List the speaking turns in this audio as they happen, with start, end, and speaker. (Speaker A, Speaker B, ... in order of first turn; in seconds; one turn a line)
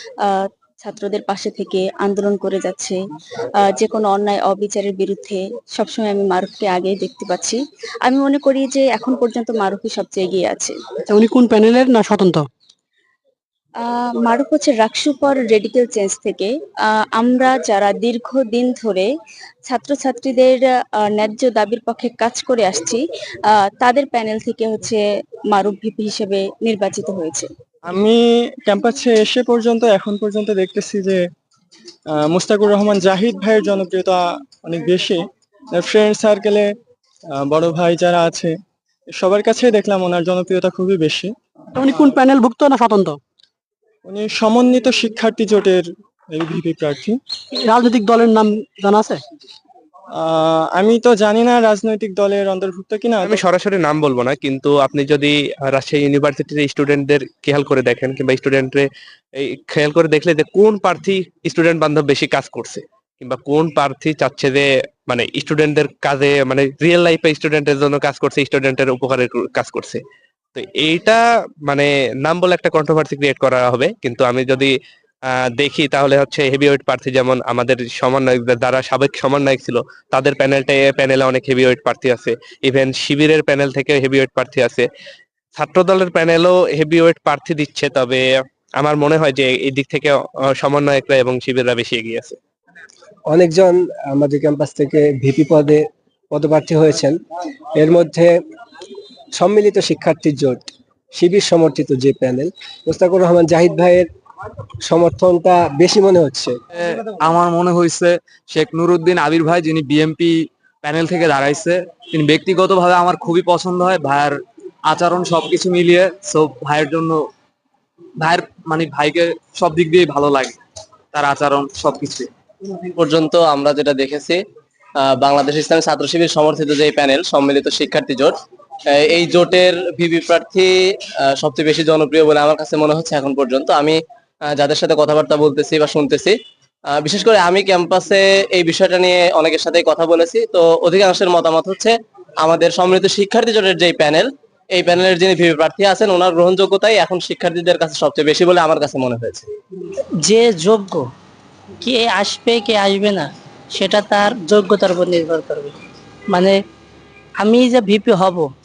Speaker A: 0.2-3.0
Speaker A: 3.6-10.8
Speaker B: 11.1-12.5
Speaker A: 13.8-19.1
Speaker A: 19.6-25.0
Speaker A: 25.5-27.5
Speaker C: 27.9-31.2
Speaker C: 32.1-35.2
Speaker C: 35.7-36.7
Speaker C: 37.4-38.5
Speaker C: 39.1-41.3
Speaker B: 41.8-43.2
Speaker C: 44.1-47.2
Speaker B: 47.6-49.2
Speaker C: 50.2-53.4
Speaker D: 53.2-58.9
Speaker D: 59.4-70.0
Speaker D: 70.5-74.7
Speaker D: 75.6-84.9
Speaker D: 85.5-88.2
Speaker D: 88.8-92.4
Speaker E: 93.3-97.2
Speaker E: 97.8-98.4
Speaker E: 99.3-104.1
Speaker E: 104.9-106.5
Speaker F: 106.8-117.3
Speaker F: 118.2-120.6
Speaker F: 121.1-122.3
Speaker G: 123.0-124.4
Speaker G: 125.0-128.3
Speaker G: 129.0-130.7
Speaker G: 131.4-134.0
Speaker G: 134.5-136.3
Speaker G: 136.9-141.9
Speaker G: 142.4-149.5
Speaker H: 150.2-151.1
Speaker H: 151.8-155.8
Speaker H: 157.4-158.5